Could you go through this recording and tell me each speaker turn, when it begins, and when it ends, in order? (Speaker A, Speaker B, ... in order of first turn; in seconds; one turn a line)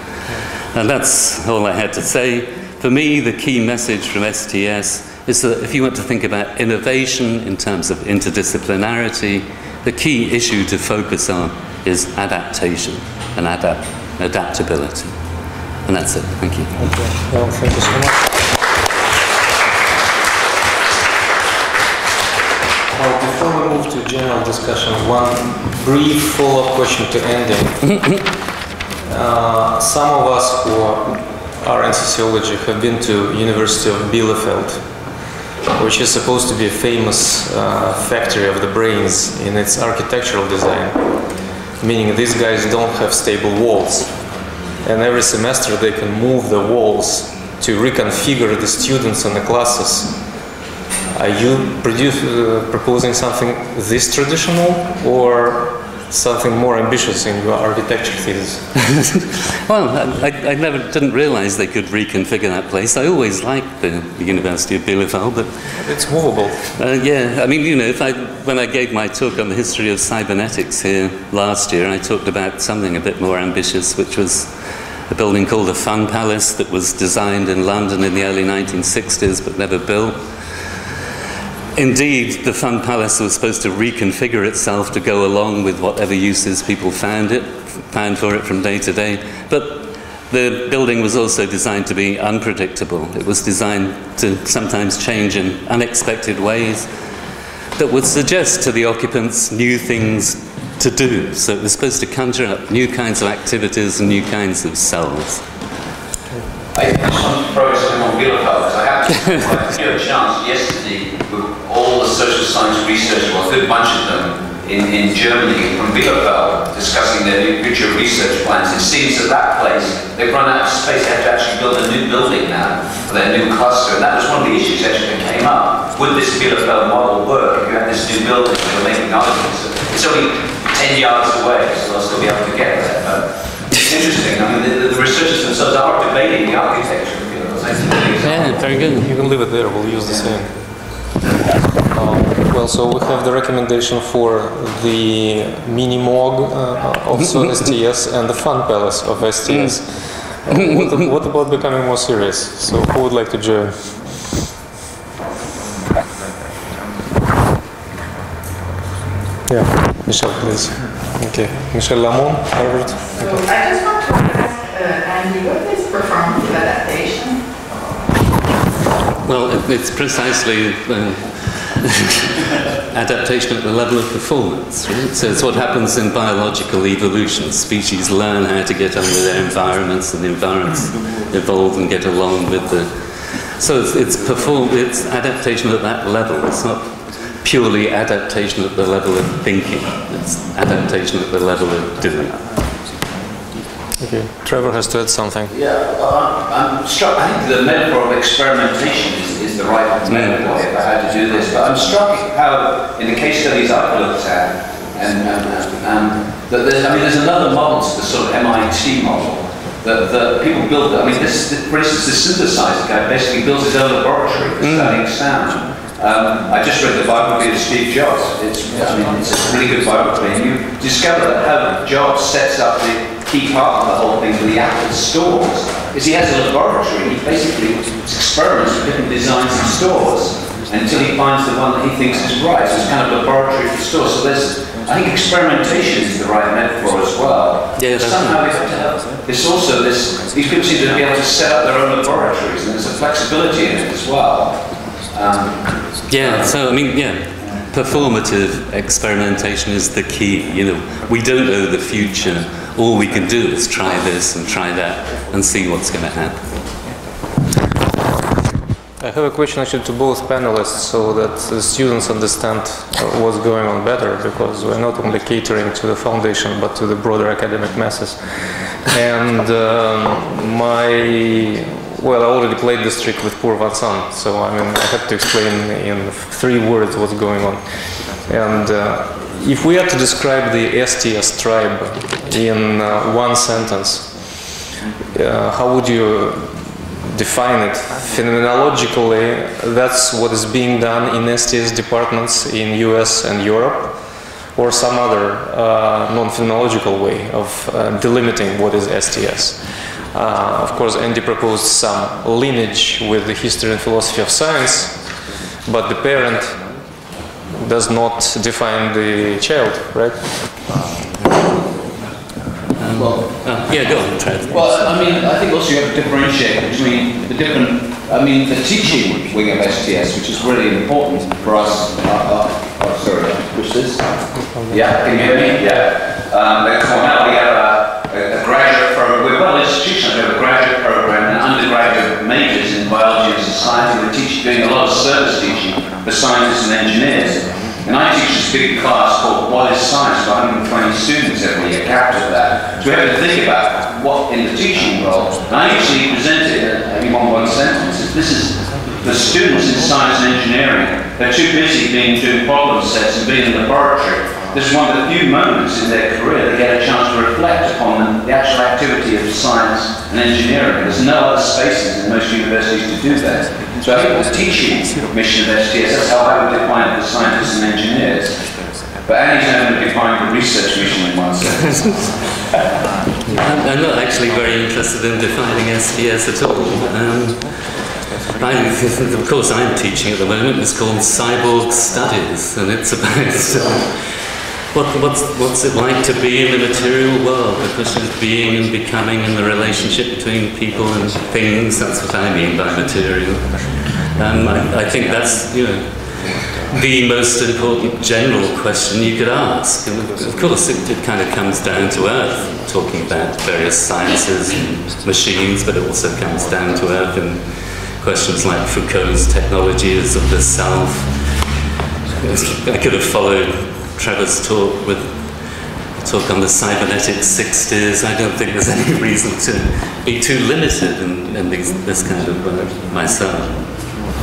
Speaker A: 0.7-15.2
Speaker A: 15.9-16.9
Speaker B: 16.8-18.4
Speaker B: 22.9-28.0
Speaker B: 29.1-34.9
Speaker B: 35.7-41.2
Speaker B: 41.8-44.2
Speaker B: 44.8-50.2
Speaker B: 51.1-58.7
Speaker A: 58.9-65.7
Speaker B: 65.8-66.6
Speaker A: 66.7-74.5
Speaker A: 75.1-80.2
Speaker A: 81.8-96.9
Speaker A: 97.8-105.4
Speaker C: 106.7-138.7
Speaker A: 138.2-139.1
Speaker B: 138.4-140.6
Speaker B: 141.9-154.0
Speaker A: 149.5-149.8
Speaker B: 159.5-163.1
Speaker D: 163.1-167.4
Speaker A: 169.2-172.2
Speaker A: 172.9-192.4
Speaker B: 194.0-195.5
Speaker C: 195.5-246.5
Speaker A: 200.1-200.4
Speaker A: 214.6-215.0
Speaker A: 237.8-238.4
Speaker A: 246.1-256.4
Speaker B: 259.0-284.2
Speaker B: 285.1-294.0
Speaker B: 294.6-299.6
Speaker B: 300.1-305.1
Speaker B: 305.6-306.9
Speaker B: 307.5-310.3
Speaker A: 312.8-315.2
Speaker C: 313.0-313.3
Speaker C: 314.5-324.1
Speaker B: 324.4-325.1
Speaker C: 324.7-372.4
Speaker A: 363.9-364.2
Speaker A: 371.4-372.1
Speaker A: 373.3-411.3
Speaker A: 412.2-415.4
Speaker A: 416.0-423.9